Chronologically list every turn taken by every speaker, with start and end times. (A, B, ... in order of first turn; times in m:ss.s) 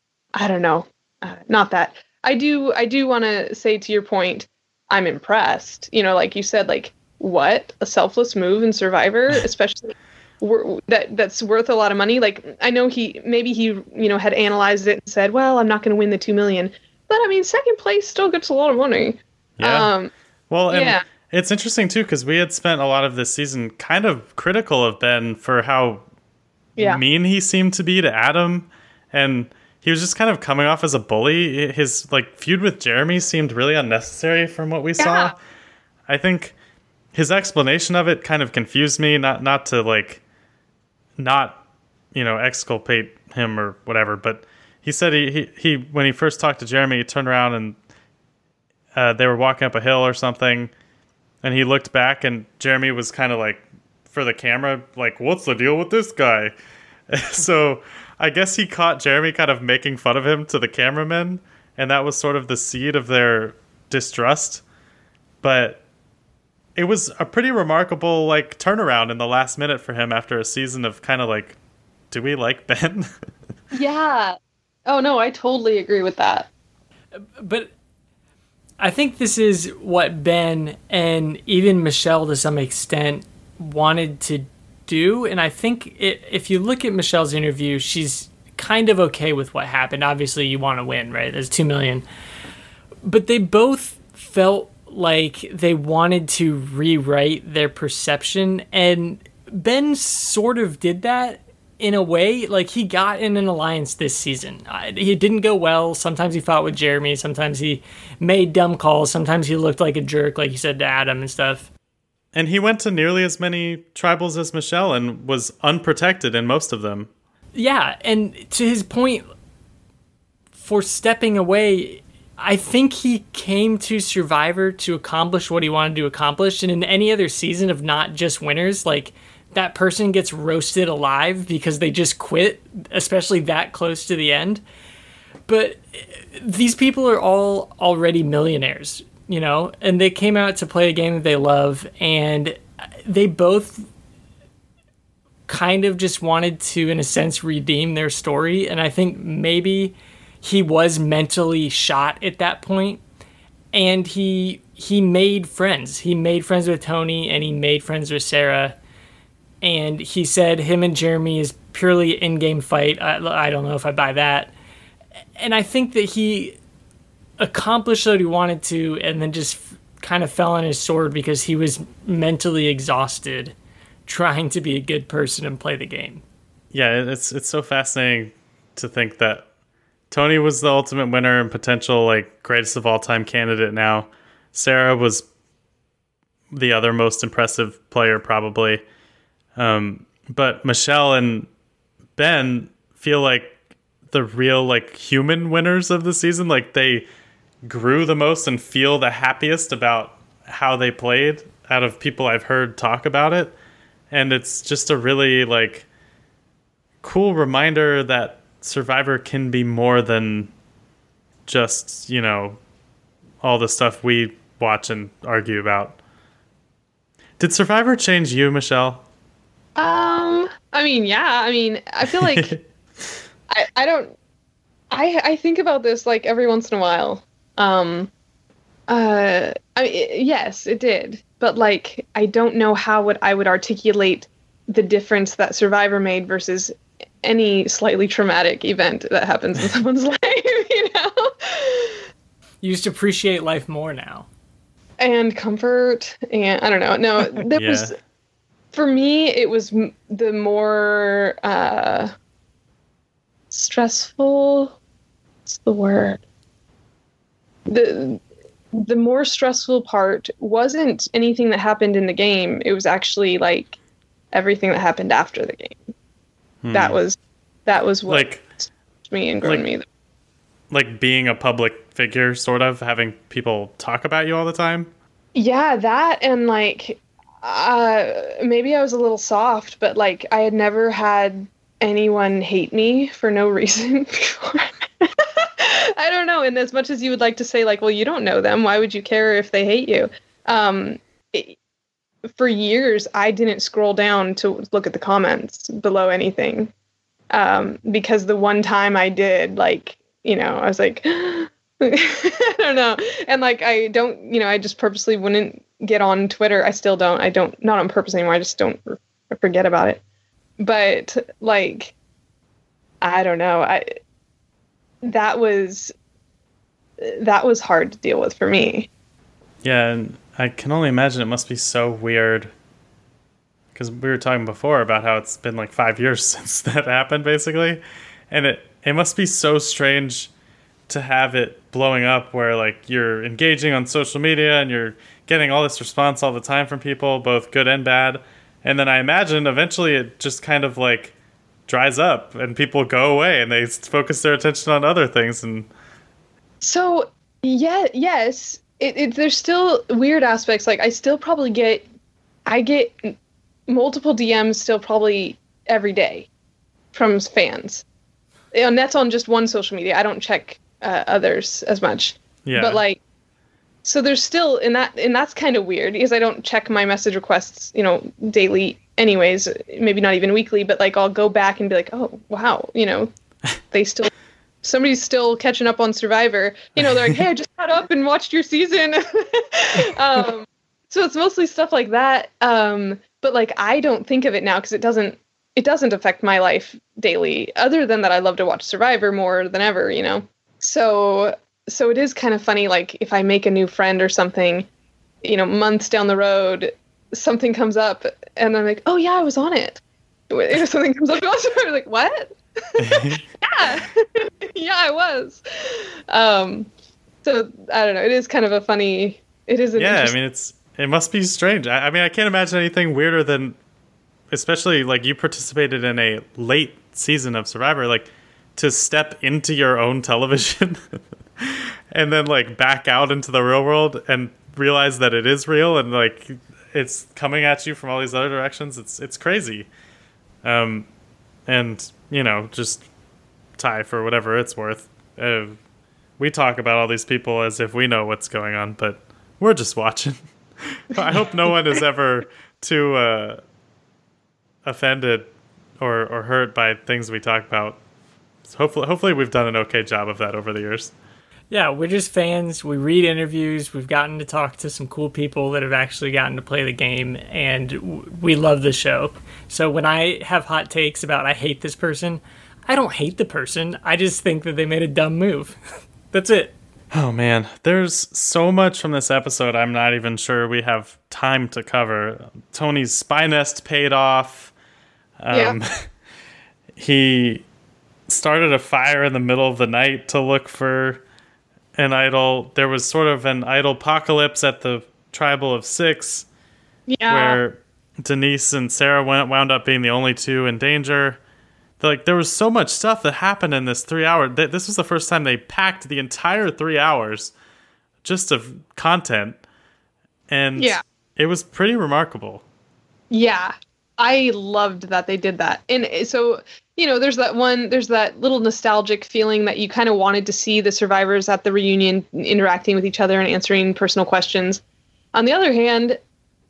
0:00.4-0:20.1 A
0:19.6-0:19.9 B
0:20.5-0:26.0 B
0:20.7-0:21.0 A
0:26.8-0:35.4 B
0:35.0-0:35.3 A
0:36.1-0:36.6 B
0:37.2-0:40.2 B
0:41.2-0:41.6 B
0:42.1-0:47.8 B
0:48.9-0:50.7 B
0:51.4-0:56.6 B
0:57.1-1:04.6 B
1:05.4-1:05.8 B
1:06.8-1:11.6 B
1:12.1-1:13.1 B
1:13.7-1:16.5 A
1:17.1-1:17.7 C
1:18.8-1:32.0 C
1:33.0-1:51.7 C
1:52.3-1:57.1 B
1:57.6-1:59.2 C
2:00.6-2:14.6 C
2:15.5-2:23.9 C
2:25.5-2:33.0 C
2:33.7-2:38.8 C
2:39.6-2:44.5 C
2:45.4-2:46.6 C
2:47.4-2:53.6 C
2:54.1-2:56.2 C
2:56.7-2:59.4 B
3:00.1-3:05.3 B
3:06.5-3:08.8 B
3:09.6-3:11.5 B
3:12.2-3:13.6 B
3:14.1-3:17.1 B
3:17.6-3:23.6 B
3:24.1-3:25.9 B
3:27.0-3:30.5 B
3:31.5-3:32.6 B
3:33.4-3:36.0 B
3:37.4-3:39.0 B
3:39.8-3:42.5 A
3:42.0-3:42.6 B
3:43.5-3:44.2 A
3:44.9-3:48.1 A
3:48.9-4:02.0 A
4:02.6-4:04.3 C
4:05.0-4:07.9 A
4:07.5-4:07.9 B
4:08.7-4:12.1 A
4:13.5-4:14.8 A
4:15.5-4:16.2 A
4:17.7-4:18.2 A
4:18.7-4:23.8 A
4:24.3-4:25.8 A
4:26.6-4:27.0 B
4:26.7-4:29.8 A
4:28.1-4:28.4 B
4:30.7-4:34.9 B
4:35.4-4:51.6 A
4:52.4-4:56.7 A
4:57.3-5:10.0 A
5:10.6-5:11.9 A
5:13.0-5:13.9 A
5:15.0-5:15.9 A
5:17.0-5:18.9 A
5:19.6-5:22.5 B
5:23.7-5:30.3 B
5:30.9-5:41.1 B
5:41.7-5:45.7 B
5:46.6-5:51.9 A
5:52.5-5:53.2 A
5:53.7-5:56.3 A
5:56.9-5:57.8 A
5:58.5-6:03.0 A
6:02.5-6:02.8 B
6:03.8-6:13.1 A
6:13.7-6:14.1 A
6:14.6-6:34.7 A
6:35.2-6:46.7 A
6:42.8-6:43.2 B
6:47.2-6:50.2 A
6:49.8-6:53.6 B
6:54.3-7:09.7 B
7:10.4-7:10.9 B
7:11.5-7:12.8 B
7:13.6-7:15.6 B
7:16.2-7:23.4 B
7:24.6-7:27.8 B
7:28.4-7:30.9 B
7:31.5-7:45.6 C
7:46.1-7:46.6 C
7:46.9-7:54.5 B
7:55.2-7:55.9 B
7:55.3-7:55.6 A
7:56.8-7:57.4 B
7:58.1-8:01.0 B
8:01.8-8:06.3 B
8:06.9-8:07.4 A
8:07.1-8:11.2 B
8:11.8-8:17.3 B
8:18.0-8:19.4 B
8:20.3-8:22.4 B
8:20.6-8:20.8 A
8:23.1-8:34.6 A
8:35.1-8:36.0 A